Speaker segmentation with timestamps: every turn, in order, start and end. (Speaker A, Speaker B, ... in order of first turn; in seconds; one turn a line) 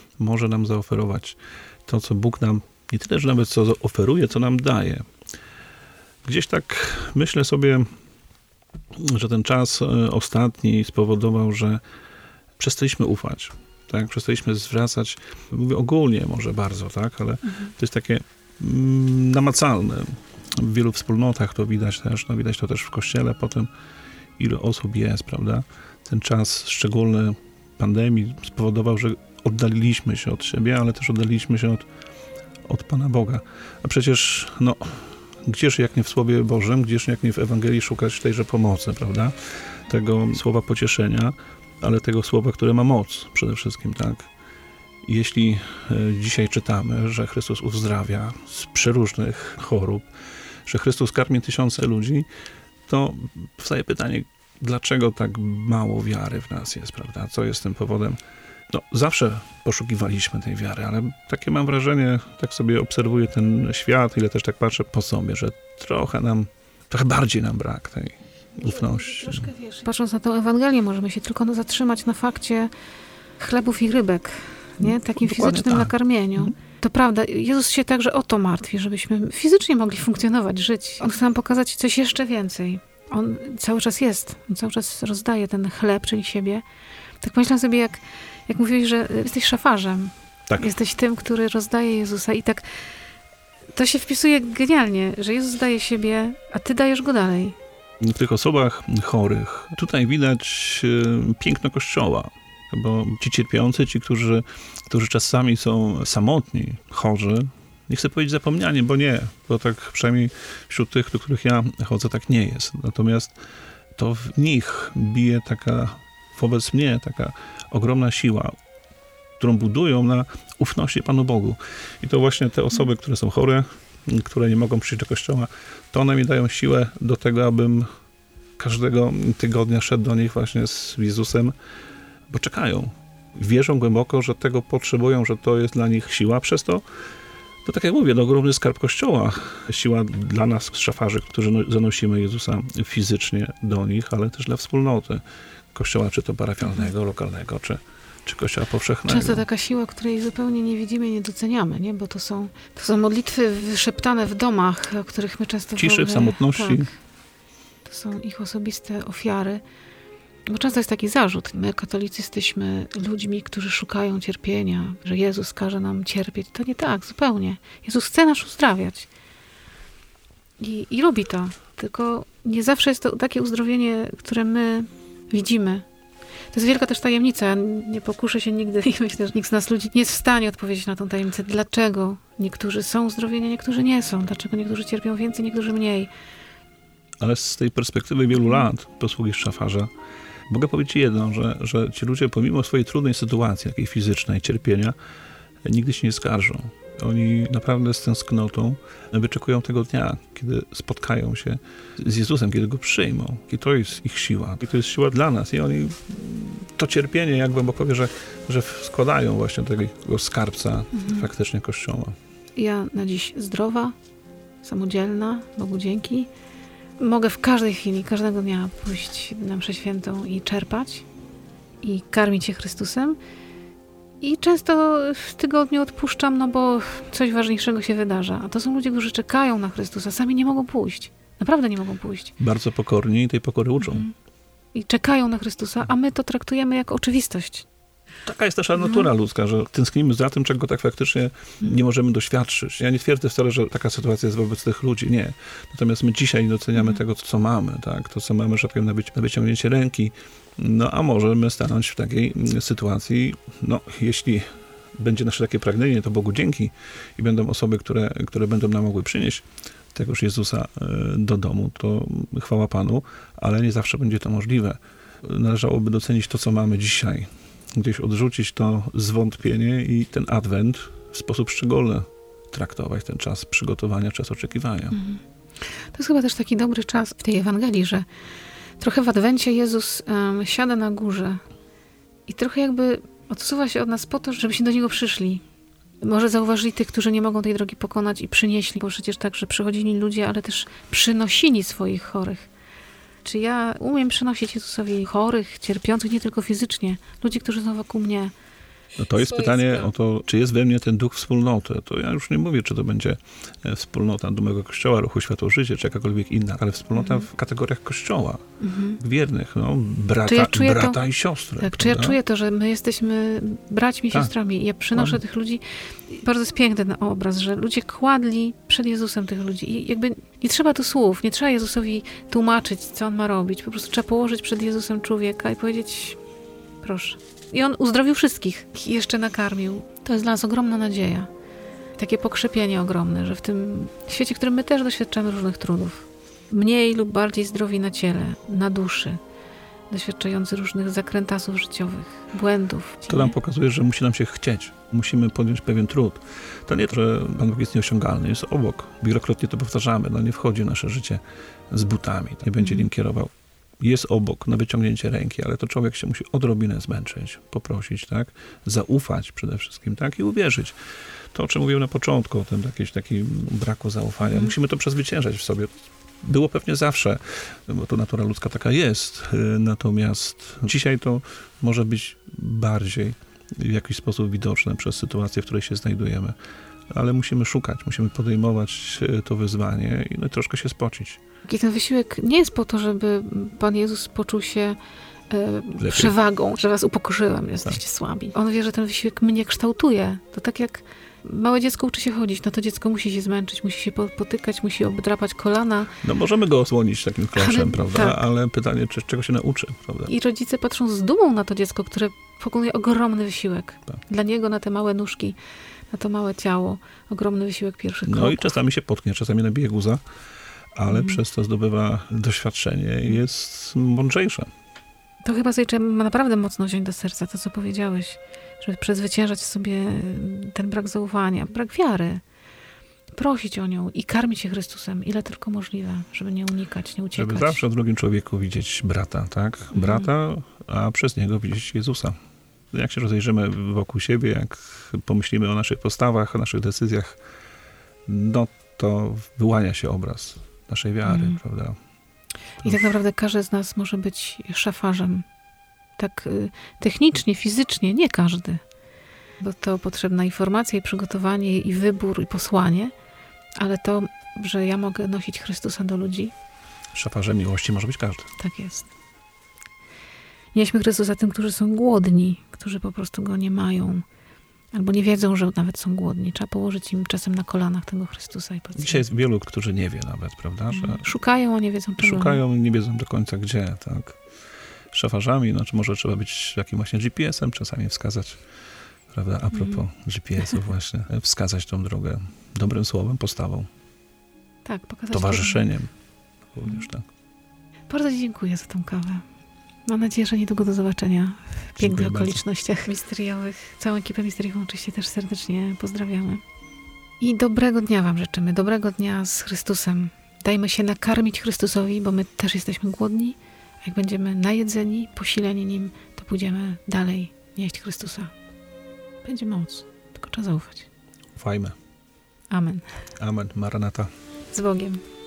Speaker A: 0.2-5.0
Speaker A: 6.2-7.9
Speaker A: 8.9-11.8
Speaker A: 12.6-23.7
Speaker A: 24.4-31.9
Speaker A: 32.6-39.3
Speaker A: 39.9-44.3
Speaker A: 45.0-50.1
Speaker A: 50.6-52.3
Speaker A: 52.9-58.2
Speaker A: 58.7-69.5
Speaker B: 68.6-72.7
Speaker B: 73.4-86.6
Speaker A: 74.8-76.5
Speaker B: 87.2-92.6
Speaker B: 93.7-97.5
Speaker A: 98.0-113.3
Speaker A: 113.9-118.5
Speaker A: 119.4-127.9
Speaker A: 128.6-131.5
Speaker A: 132.3-136.8
Speaker A: 137.6-145.2
Speaker A: 145.7-149.4
Speaker B: 149.1-156.9
Speaker A: 155.7-156.9
Speaker B: 157.8-159.6
Speaker B: 160.5-169.1
Speaker B: 170.6-175.8
Speaker B: 176.5-186.1
Speaker A: 187.2-189.9
Speaker B: 188.3-188.7
Speaker A: 190.5-194.9
Speaker A: 195.6-212.2
Speaker B: 210.9-211.3
Speaker B: 212.6-213.9
Speaker B: 214.6-216.3
Speaker B: 217.0-221.1
Speaker B: 221.8-223.2
Speaker B: 224.2-232.3
Speaker A: 232.4-234.1
Speaker B: 233.8-234.1
Speaker B: 234.7-237.7
Speaker A: 238.2-274.9
Speaker B: 238.8-239.1
Speaker B: 274.9-278.1
Speaker B: 278.8-281.4
Speaker B: 282.3-285.4
Speaker B: 286.0-292.5
Speaker B: 293.2-298.3
Speaker A: 298.9-308.4
Speaker B: 299.3-299.9
Speaker B: 306.9-307.2
Speaker B: 308.6-309.0
Speaker A: 309.0-312.2
Speaker B: 310.2-311.0
Speaker B: 311.6-326.2
Speaker A: 314.9-315.2
Speaker B: 326.8-331.3
Speaker B: 332.0-339.2
Speaker B: 339.9-343.3
Speaker A: 343.1-360.7
Speaker B: 352.6-352.9
Speaker A: 361.3-376.4
Speaker B: 364.2-364.5
Speaker A: 376.9-381.2
Speaker B: 381.4-384.8
Speaker B: 385.3-396.0
Speaker A: 385.8-386.1
Speaker A: 396.0-400.1
Speaker B: 397.3-398.2
Speaker B: 400.1-405.4
Speaker B: 405.9-408.6
Speaker A: 408.1-410.0
Speaker A: 410.7-414.5
Speaker B: 410.9-411.2
Speaker B: 415.2-422.2
Speaker B: 423.1-427.6
Speaker A: 427.1-432.1
Speaker B: 429.7-430.1
Speaker A: 432.7-437.2
Speaker A: 438.1-441.8
Speaker B: 441.0-441.4
Speaker B: 442.6-445.2
Speaker B: 446.0-448.6
Speaker B: 449.4-452.9
Speaker B: 453.6-456.3
Speaker A: 456.9-458.3
Speaker B: 458.4-458.9
Speaker B: 460.5-464.0
Speaker B: 464.7-469.0
Speaker A: 468.8-471.1
Speaker B: 470.7-472.4
Speaker A: 472.0-474.2
Speaker A: 474.9-478.4
Speaker A: 479.1-483.7
Speaker B: 479.5-479.8
Speaker B: 484.6-485.6
Speaker A: 485.1-485.9
Speaker A: 486.5-487.0
Speaker B: 487.9-489.2
Speaker B: 489.9-496.4
Speaker A: 491.8-492.4
Speaker B: 497.2-508.3
Speaker B: 509.2-510.9
Speaker A: 511.3-511.8
Speaker B: 512.5-513.0
Speaker A: 513.2-514.1
Speaker B: 514.5-515.0